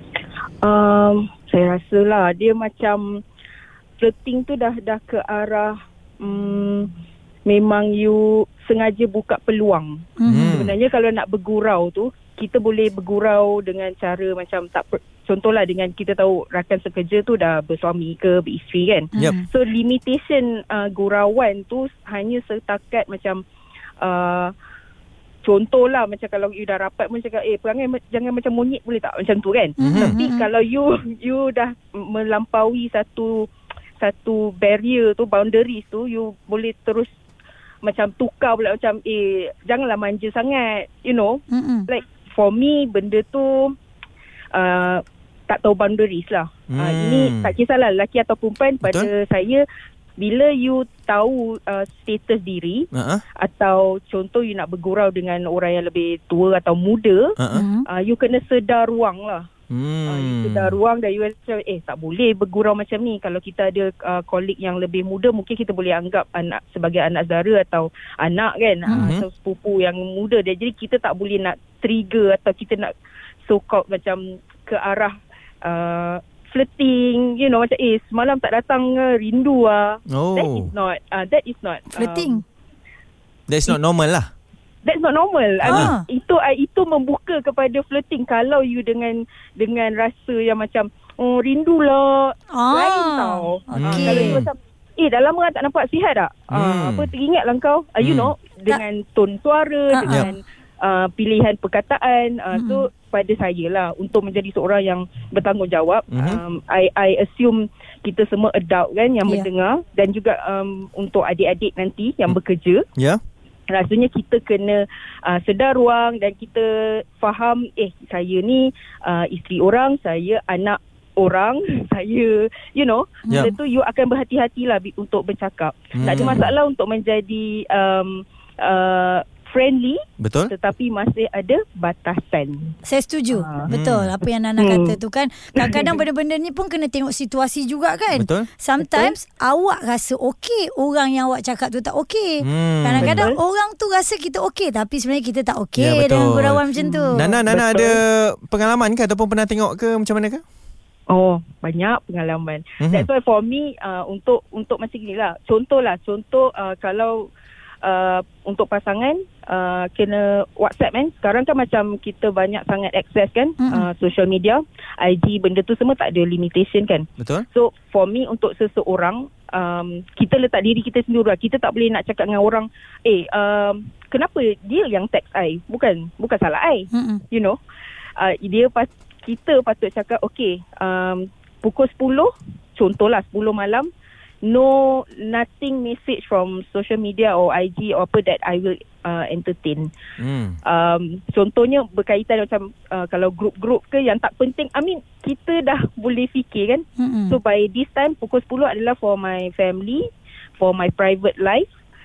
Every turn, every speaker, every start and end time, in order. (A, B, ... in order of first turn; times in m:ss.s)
0:00.6-0:03.2 A
0:04.0-0:06.9 A
0:07.4-0:23.4 A
0:10.2-0:10.5 B
0:10.3-0:10.7 C
0:19.2-0:19.4 B
0:24.0-0:24.5 A
0:25.4-0:37.1 A
0:29.8-0:30.5 B
0:29.8-0:30.2 C
0:37.8-0:43.7 A
0:41.5-0:41.9 B
0:44.5-0:49.6 A
0:46.7-0:47.5 C
0:48.8-0:49.1 C
0:50.2-0:52.9 A
0:52.9-0:53.2 C
0:53.4-0:57.3 A
0:57.4-0:57.6 C
0:57.5-0:57.8 B
0:57.9-0:59.5 A
0:59.7-1:00.8 C
1:00.1-1:12.9 A
1:08.9-1:09.2 C
1:13.4-1:22.4 A
1:20.1-1:20.7 C
1:21.9-1:22.4 B
1:23.5-1:24.3 C
1:24.8-1:52.8 A
1:25.6-1:26.0 B
1:32.5-1:34.4 B
1:33.7-1:34.4 C
1:36.5-1:37.1 C
1:38.0-1:38.3 C
1:39.9-1:40.3 B
1:42.5-1:42.8 B
1:46.1-1:46.4 C
1:53.7-2:10.0 A
2:03.3-2:03.5 B
2:06.0-2:06.4 C
2:06.1-2:06.4 B
2:10.2-2:10.5 C
2:10.5-2:12.7 A
2:12.8-2:27.2 B
2:13.3-2:13.6 A
2:13.7-2:14.1 C
2:14.6-2:15.0 A
2:15.6-2:16.0 A
2:18.1-2:18.5 C
2:18.8-2:19.1 A
2:22.4-2:23.3 C
2:23.0-2:23.4 A
2:25.8-2:30.4 C
2:26.8-2:28.0 A
2:31.1-2:37.3 A
2:32.8-2:33.1 C
2:37.8-2:57.6 A
2:43.6-2:43.9 B
2:47.2-2:47.4 C
2:56.9-2:57.2 B
2:58.2-3:03.9 A
3:04.4-3:09.9 A
3:10.2-3:10.6 C
3:10.6-3:20.0 A
3:17.0-3:17.4 B
3:20.6-3:21.7 A